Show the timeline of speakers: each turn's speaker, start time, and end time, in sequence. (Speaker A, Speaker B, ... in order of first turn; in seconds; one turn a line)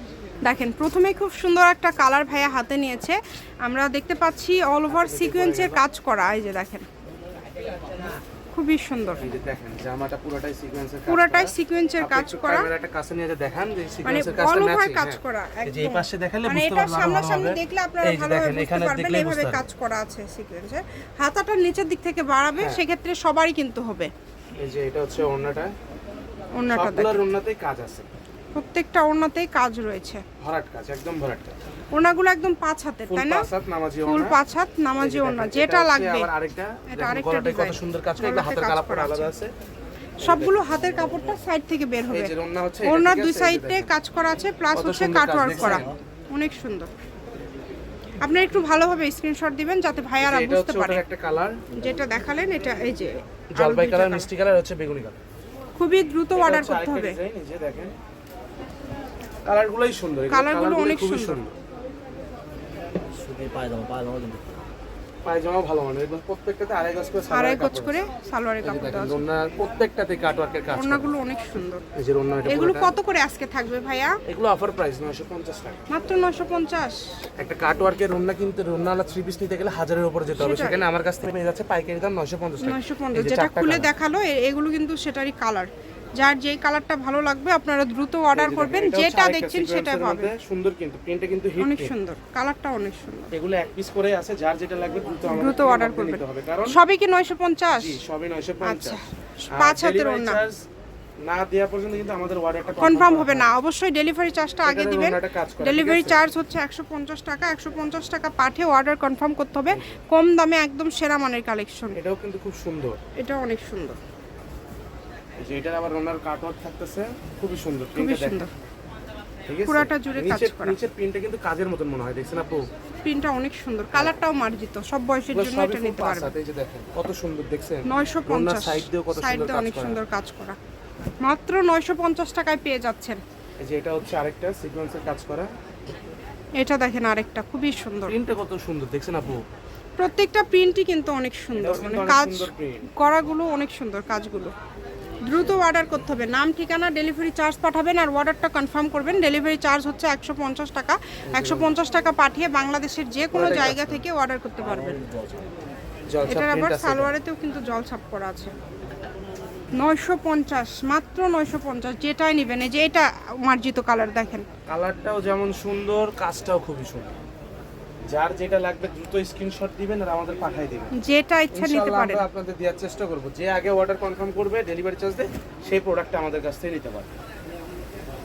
Speaker A: 0.4-6.9
Speaker B: 4.9-5.8
Speaker A: 8.5-9.3
Speaker B: 9.2-19.6
Speaker A: 11.1-12.7
Speaker A: 14.0-24.1
Speaker B: 24.6-25.7
Speaker A: 26.6-27.2
Speaker B: 26.7-28.1
Speaker A: 28.5-30.2
Speaker B: 30.4-31.6
Speaker A: 31.9-33.5
Speaker B: 33.1-34.4
Speaker A: 34.0-36.3
Speaker B: 35.0-39.5
Speaker A: 36.9-39.3
Speaker B: 40.2-40.7
Speaker A: 40.2-42.3
Speaker C: 40.6-41.4
Speaker B: 42.1-43.9
Speaker A: 42.8-46.9
Speaker B: 44.7-45.9
Speaker C: 45.5-46.0
Speaker A: 48.2-51.0
Speaker B: 50.2-51.6
Speaker A: 51.7-54.3
Speaker B: 53.5-55.2
Speaker A: 55.8-57.2
Speaker B: 56.4-57.9
Speaker B: 59.5-61.5
Speaker A: 60.3-61.4
Speaker C: 63.1-64.6
Speaker B: 65.2-67.9
Speaker A: 67.3-69.2
Speaker B: 68.6-71.1
Speaker A: 70.7-71.8
Speaker B: 71.9-72.9
Speaker A: 72.5-74.1
Speaker B: 74.2-75.8
Speaker A: 75.9-77.0
Speaker B: 77.4-83.9
Speaker A: 80.4-80.8
Speaker A: 82.6-90.3
Speaker B: 88.3-91.9
Speaker A: 91.6-93.3
Speaker B: 93.3-96.8
Speaker A: 95.2-98.0
Speaker B: 97.7-99.0
Speaker A: 98.6-100.4
Speaker B: 99.6-100.6
Speaker B: 101.2-103.5
Speaker A: 102.8-112.0
Speaker B: 104.6-106.2
Speaker B: 109.7-110.0
Speaker B: 112.0-113.0
Speaker A: 113.2-114.0
Speaker B: 115.4-118.4
Speaker A: 118.0-118.5
Speaker B: 119.5-122.6
Speaker A: 119.7-120.8
Speaker A: 123.0-126.3
Speaker B: 123.9-124.2
Speaker B: 125.3-130.0
Speaker A: 127.8-130.6
Speaker A: 131.2-133.2
Speaker B: 133.6-135.5
Speaker A: 136.6-138.2
Speaker B: 138.1-139.4
Speaker A: 140.0-144.5
Speaker B: 141.5-142.9
Speaker A: 145.2-155.0
Speaker B: 151.3-151.7
Speaker B: 153.3-154.0
Speaker C: 154.6-155.5
Speaker B: 156.1-157.1
Speaker A: 156.3-158.5
Speaker A: 159.8-164.4
Speaker B: 164.7-167.2
Speaker B: 168.1-170.9
Speaker A: 170.9-172.2
Speaker B: 171.5-177.1